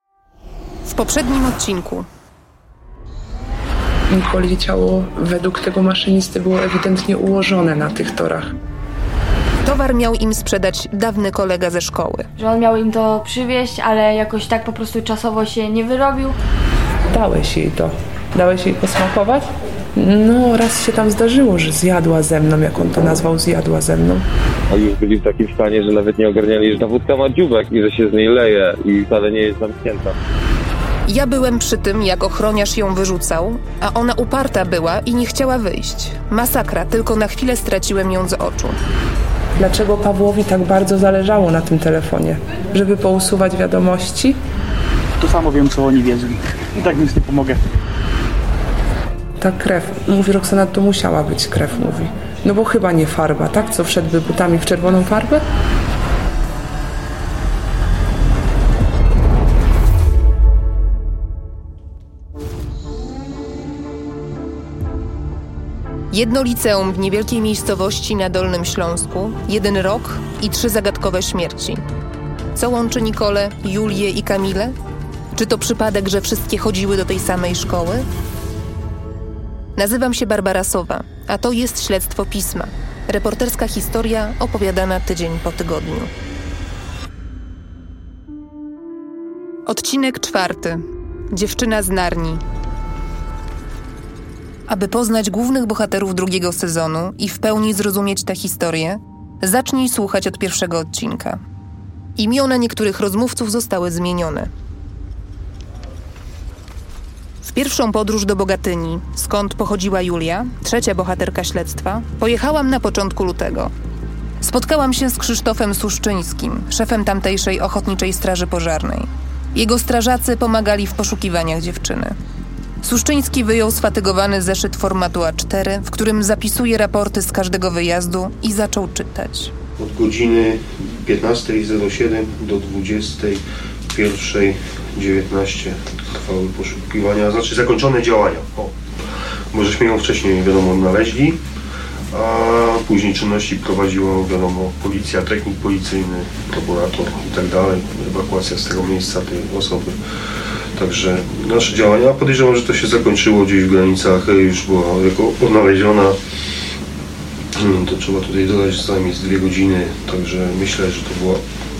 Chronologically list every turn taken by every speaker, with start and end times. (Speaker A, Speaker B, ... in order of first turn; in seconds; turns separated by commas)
Speaker A: 0.8-2.1, Speaker B: 4.1-8.5, Speaker A: 9.6-12.3, Speaker C: 12.4-16.3, Speaker B: 17.1-24.2, Speaker D: 24.7-30.1, Speaker A: 31.1-38.8, Speaker B: 39.5-44.4, Speaker E: 45.2-47.6, Speaker B: 49.4-55.4, Speaker A: 66.1-71.8, Speaker A: 72.5-74.7, Speaker A: 75.3-78.0, Speaker A: 79.8-86.1, Speaker A: 89.7-92.4, Speaker A: 94.7-101.4, Speaker A: 102.2-104.5, Speaker A: 107.4-113.7, Speaker A: 114.4-122.1, Speaker A: 122.8-129.5, Speaker F: 129.8-138.7, Speaker F: 139.5-141.4, Speaker F: 142.1-150.0, Speaker F: 150.8-156.2, Speaker F: 157.5-161.4